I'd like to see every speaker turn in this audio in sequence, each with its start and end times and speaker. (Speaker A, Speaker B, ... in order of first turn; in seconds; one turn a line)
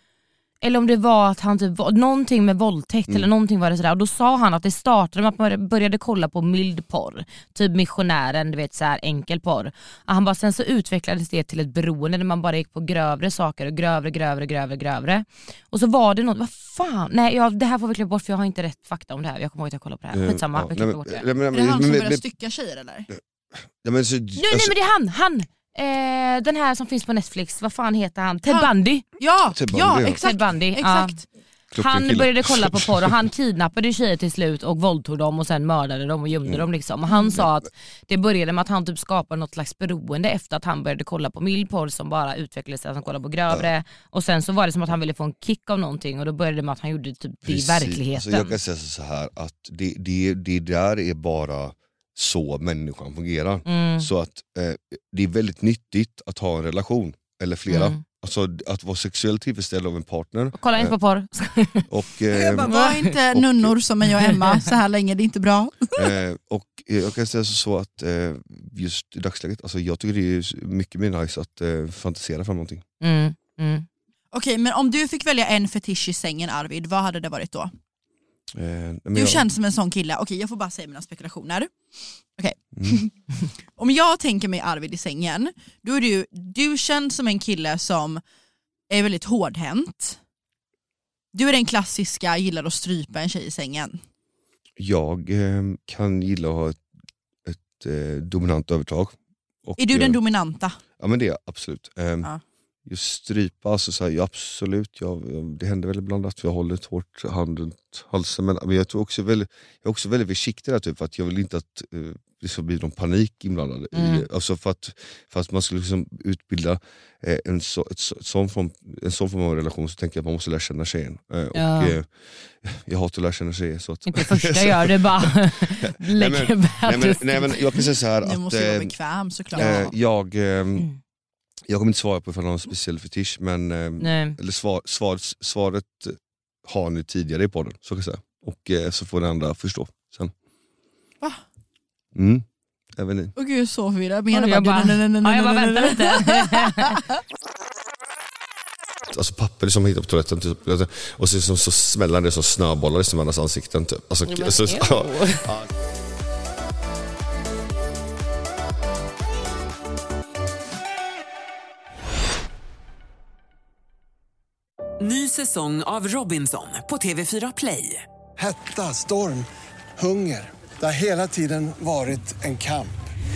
Speaker A: 0.6-21.2
Speaker B: 20.1-22.2
Speaker C: 21.5-23.1
Speaker B: 23.8-24.7
Speaker A: 24.4-29.0
Speaker C: 28.5-31.2
Speaker B: 29.5-30.2
Speaker A: 30.2-31.2
Speaker B: 31.7-33.1
Speaker A: 31.8-48.5
Speaker B: 47.5-61.0
Speaker A: 53.7-54.1
Speaker A: 57.7-58.0
Speaker A: 60.5-61.9
Speaker B: 61.9-63.8
Speaker C: 62.3-66.2
Speaker A: 62.7-63.1
Speaker A: 64.3-64.6
Speaker B: 66.0-72.8
Speaker A: 73.0-73.9
Speaker C: 74.3-77.7
Speaker B: 78.5-79.5
Speaker C: 79.1-81.7
Speaker C: 82.4-83.1
Speaker C: 83.8-88.2
Speaker C: 88.9-90.2
Speaker C: 91.3-94.0
Speaker B: 94.8-96.8
Speaker B: 97.5-99.1
Speaker B: 99.7-100.2
Speaker C: 99.8-100.8
Speaker B: 101.0-102.3
Speaker B: 102.9-122.1
Speaker A: 113.9-114.3
Speaker A: 121.5-122.0
Speaker B: 122.6-128.9
Speaker A: 124.1-127.8
Speaker C: 128.2-129.9
Speaker B: 129.5-130.9
Speaker A: 129.6-129.9
Speaker B: 131.7-140.3
Speaker A: 134.0-134.4
Speaker B: 142.2-143.3
Speaker C: 143.4-147.2
Speaker A: 144.3-147.0
Speaker B: 149.1-155.7
Speaker A: 154.3-155.5
Speaker D: 165.0-168.0
Speaker E: 168.4-169.5
Speaker E: 170.0-173.0